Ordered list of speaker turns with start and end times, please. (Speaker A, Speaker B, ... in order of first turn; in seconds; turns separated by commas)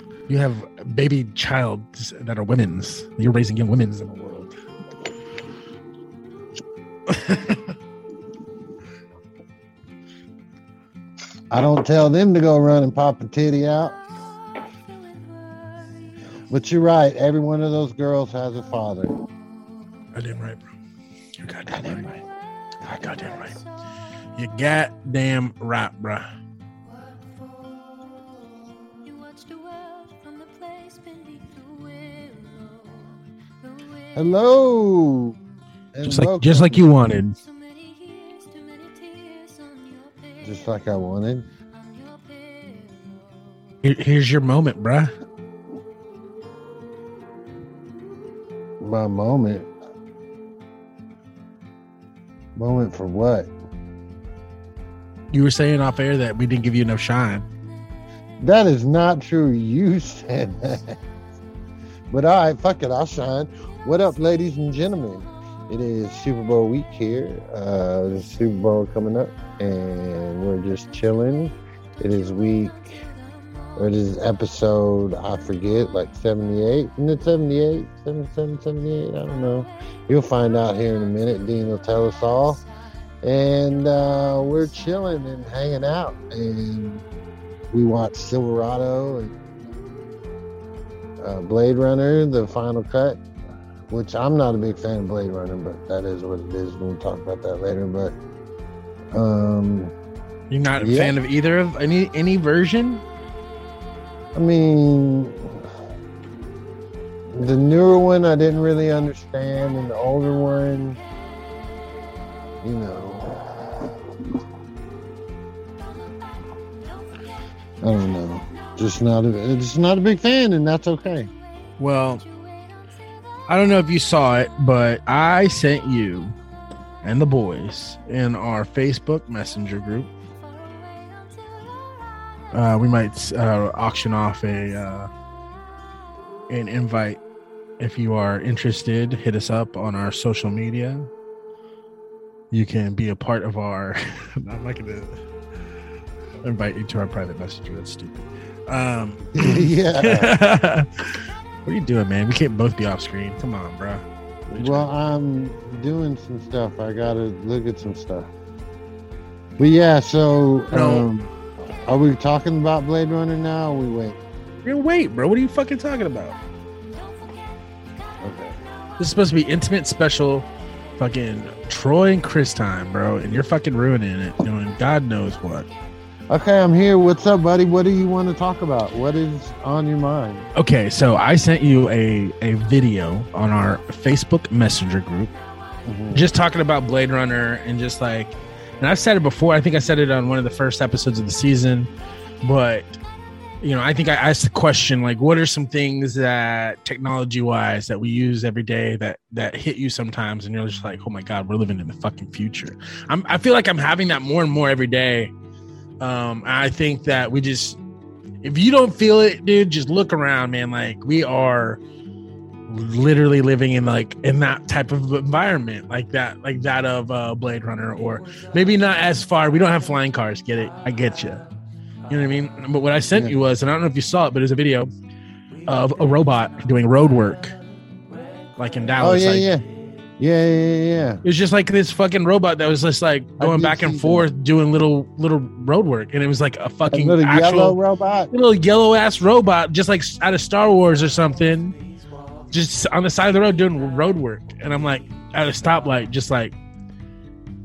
Speaker A: 0.3-4.5, Speaker A: 7.1-7.7, Speaker B: 11.5-14.0, Speaker B: 16.5-19.1, Speaker A: 20.1-20.6, Speaker A: 21.4-22.2, Speaker A: 22.8-23.6, Speaker A: 24.4-26.2, Speaker B: 34.1-35.4, Speaker B: 35.9-36.9, Speaker A: 36.0-37.4, Speaker B: 40.4-41.5, Speaker A: 43.8-45.1, Speaker B: 48.8-49.7, Speaker B: 52.5-53.5, Speaker A: 55.3-57.5, Speaker B: 58.4-61.0, Speaker B: 62.1-73.0, Speaker B: 73.8-82.6, Speaker B: 83.2-87.0, Speaker B: 87.7-89.4, Speaker B: 91.2-93.2, Speaker B: 93.9-98.1, Speaker B: 99.1-99.9, Speaker A: 100.5-103.0, Speaker B: 100.8-101.1, Speaker B: 104.3-105.6, Speaker B: 107.3-111.0, Speaker B: 112.6-113.9, Speaker B: 117.8-121.3, Speaker A: 121.8-122.2, Speaker A: 123.5-126.3, Speaker A: 127.0-130.1, Speaker A: 132.5-135.1, Speaker A: 136.5-137.2, Speaker A: 137.8-141.1, Speaker A: 142.5-145.2, Speaker A: 146.4-154.9, Speaker B: 149.3-150.3, Speaker B: 154.5-158.3, Speaker B: 159.6-161.3, Speaker A: 160.7-161.1, Speaker B: 161.8-164.2, Speaker A: 164.6-166.3, Speaker B: 168.2-168.6, Speaker A: 169.0-175.7, Speaker B: 176.3-180.4, Speaker A: 180.5-185.3, Speaker B: 185.8-186.2, Speaker A: 186.1-191.9, Speaker A: 192.4-192.9, Speaker A: 193.6-205.3, Speaker A: 206.0-207.8, Speaker A: 208.4-211.8, Speaker A: 212.7-221.4, Speaker A: 222.1-224.9, Speaker A: 225.7-227.5, Speaker A: 228.6-229.4, Speaker B: 229.0-229.6, Speaker B: 230.2-231.2, Speaker A: 231.2-237.8, Speaker B: 233.4-234.3, Speaker B: 236.9-238.3, Speaker A: 238.3-241.8, Speaker A: 242.5-246.5